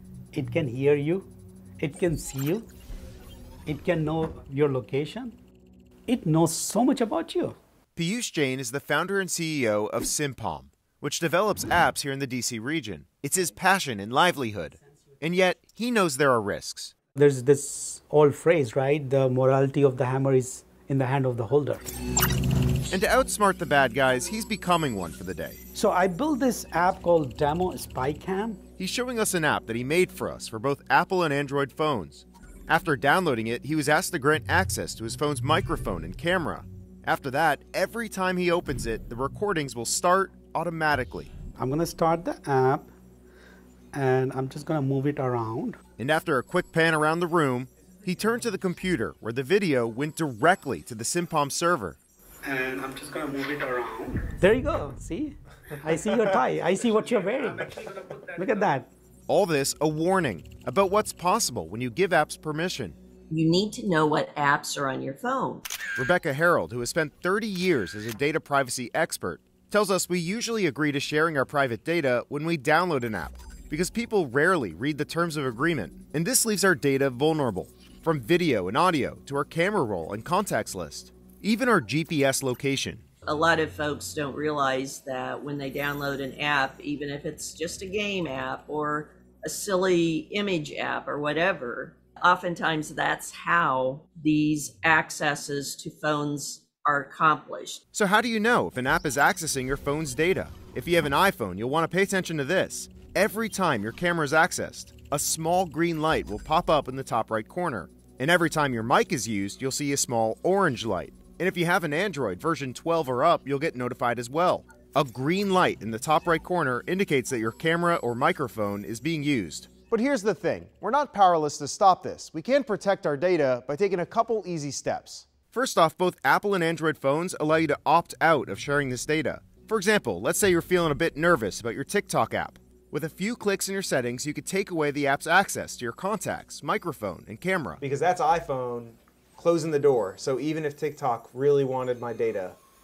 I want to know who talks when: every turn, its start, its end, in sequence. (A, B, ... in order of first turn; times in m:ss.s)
0:00.3-0:02.7 A
0:03.6-0:05.3 A
0:06.1-0:07.6 A
0:08.0-0:16.9 B
0:17.1-0:21.9 A
0:22.9-0:25.6 B
0:25.7-0:28.6 A
0:28.8-0:41.3 B
0:41.6-0:42.9 A
0:43.9-0:45.8 A
0:46.0-0:52.0 B
0:52.4-0:58.9 A
0:59.3-1:03.0 B
1:03.3-1:05.6 C
1:06.0-1:23.0 B
1:23.2-1:37.8 C
1:37.9-2:01.0 B
2:00.7-2:02.1 D
2:01.5-2:03.4 B
2:02.8-2:05.2 D
2:05.2-2:17.8 B
2:17.8-2:22.6 D